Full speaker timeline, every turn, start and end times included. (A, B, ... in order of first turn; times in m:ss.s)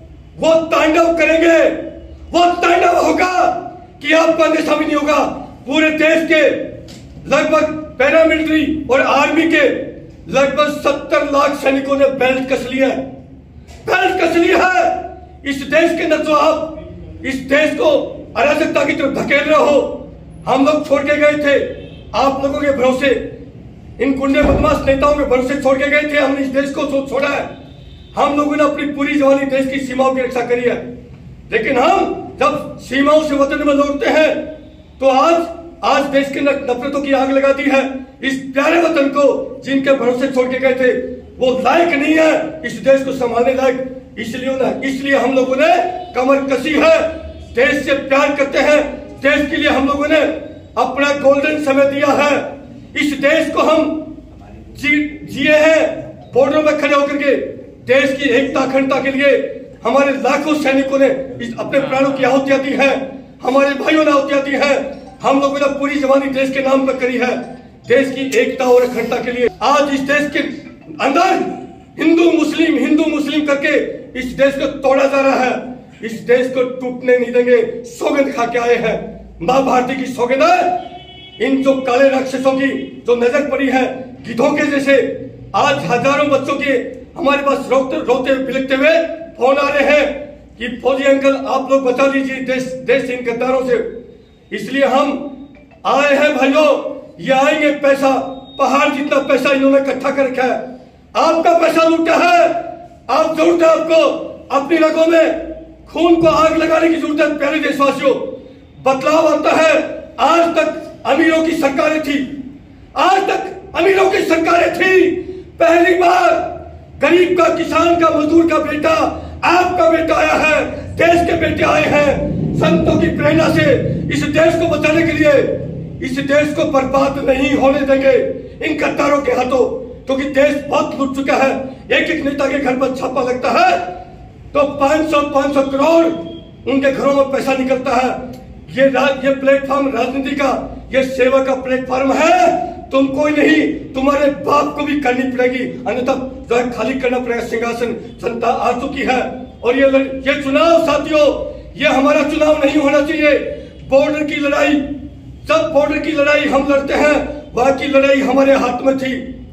0:00.4-0:13.0 A
0:13.8-0:23.2 A
0:24.0-0:27.5 A
0:28.1-0:30.8 A
0:31.5-0:34.5 A
0:35.0-0:54.1 A
0:54.7-1:20.9 A
1:21.4-1:33.9 A
1:34.5-1:35.2 A
1:35.8-1:40.6 A
1:41.2-1:48.3 A
1:48.8-1:52.3 A
1:53.0-2:13.9 A
2:14.5-2:34.8 A
2:35.4-2:39.2 A